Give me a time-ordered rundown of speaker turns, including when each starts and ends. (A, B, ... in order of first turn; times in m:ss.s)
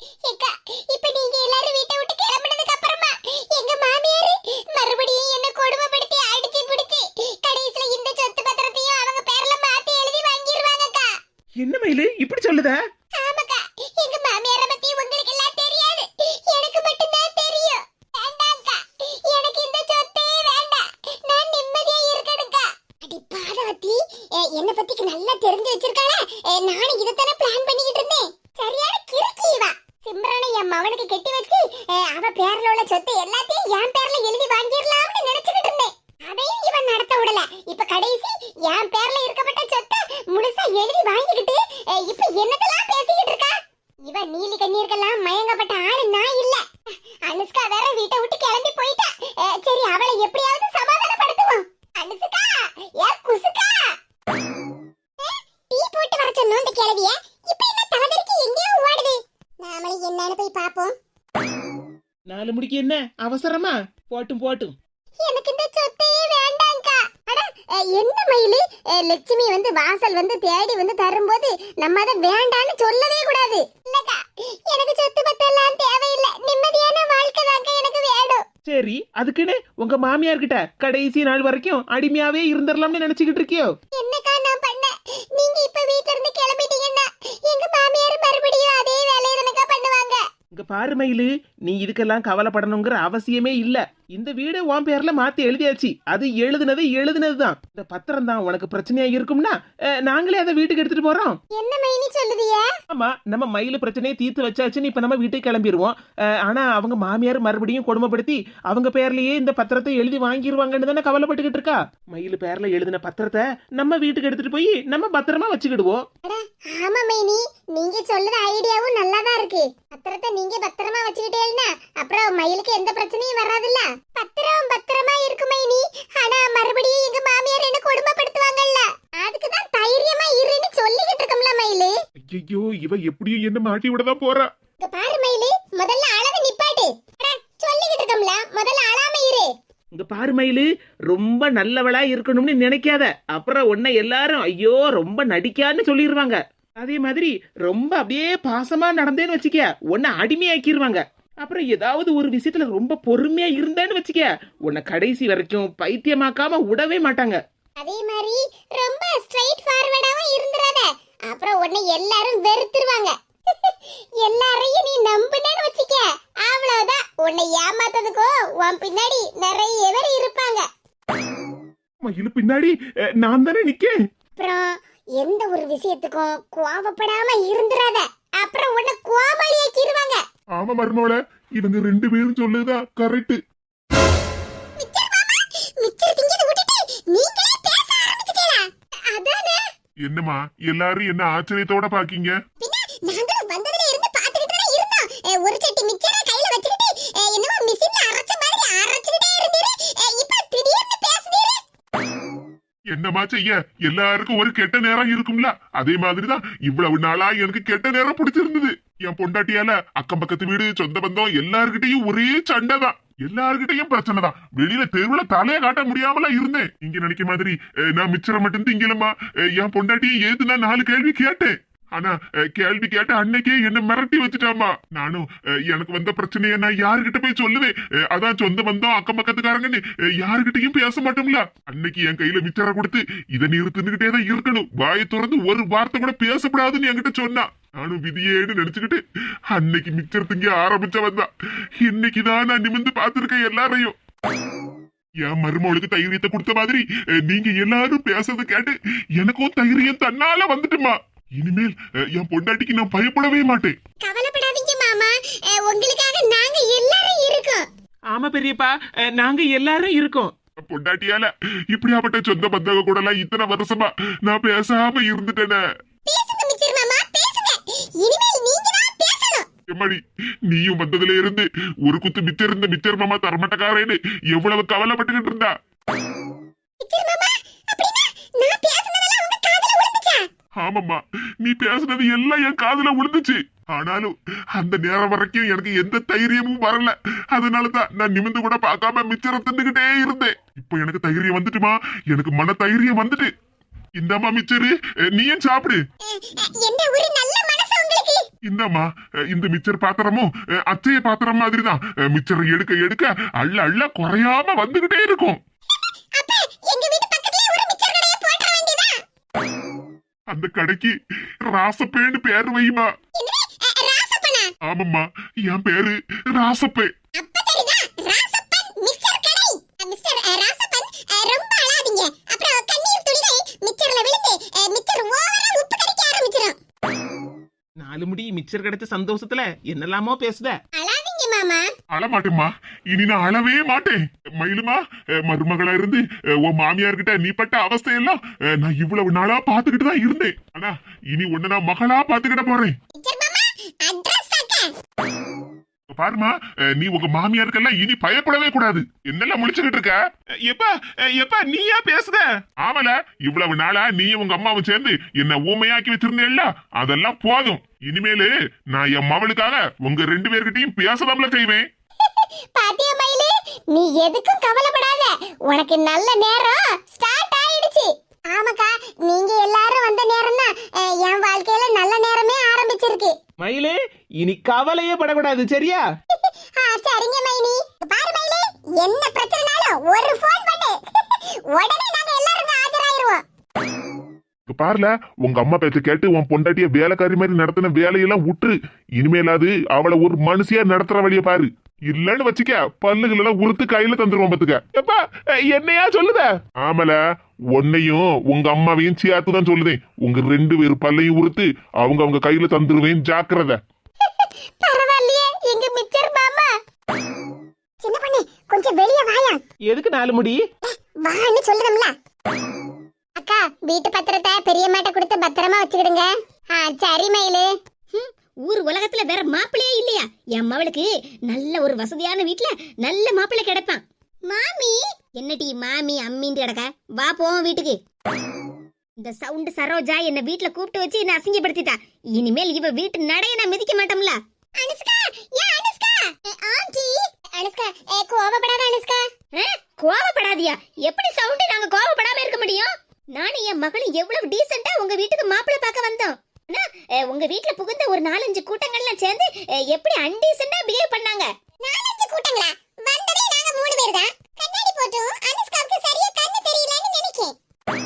0:00.2-0:11.1 A
0:11.6-0:12.7 B
0:13.2-0:43.5 A
0:44.0-0:46.7 A
0:47.2-0:53.9 A
0:55.7-1:00.9 A
1:02.3-1:04.7 B
1:05.2-1:18.4 A
1:18.7-1:23.7 B
1:24.0-1:30.2 A
1:30.5-1:39.5 B
1:40.1-1:41.4 B
1:41.6-1:42.7 A
1:42.9-1:56.0 B
1:56.2-2:11.9 A
2:12.3-2:14.5 C
2:14.8-2:19.5 A
2:19.9-2:37.4 B
2:37.8-2:50.6 A
2:52.0-2:53.9 C
2:54.4-2:54.7 A
2:55.2-3:00.2 A
3:00.6-3:03.4 C
3:04.8-3:09.6 A
3:10.0-3:12.4 C
3:12.6-3:21.6 A
3:22.9-3:59.0 C
3:59.5-4:01.3 C
4:01.8-4:03.9 C
4:05.2-4:13.7 C
4:14.0-4:17.6 A
4:18.1-4:20.3 B
4:20.6-4:25.6 C
4:26.1-4:29.4 A
4:29.7-4:35.5 C
4:36.8-4:40.2 A
4:40.6-4:53.3 C
4:54.0-4:55.8 C
4:56.1-4:58.2 A
4:58.5-5:05.4 C
5:06.2-5:08.9 A
5:10.3-5:12.9 C
5:13.2-5:14.5 A
5:14.6-5:16.9 C
5:17.2-5:26.6 A
5:27.8-5:30.5 B
5:30.8-5:31.6 A
5:31.9-5:42.7 C
5:43.0-5:44.7 A
5:45.9-5:50.0 C
5:51.2-6:01.6 C
5:51.2-5:52.2 B
6:02.0-6:13.1 A
6:13.4-6:15.8 B
6:16.6-6:23.2 A
6:24.5-6:37.0 C
6:37.5-6:43.6 C
6:44.1-6:46.5 A
6:47.8-6:49.4 A
6:49.7-6:50.4 B
6:51.0-6:51.9 A
6:53.2-6:57.5 A
6:58.0-7:03.8 D
7:04.2-7:04.8 A
7:05.2-7:07.8 D
7:09.0-7:14.2 D
7:14.6-7:19.0 A
7:19.3-7:31.3 D
7:31.6-7:37.3 A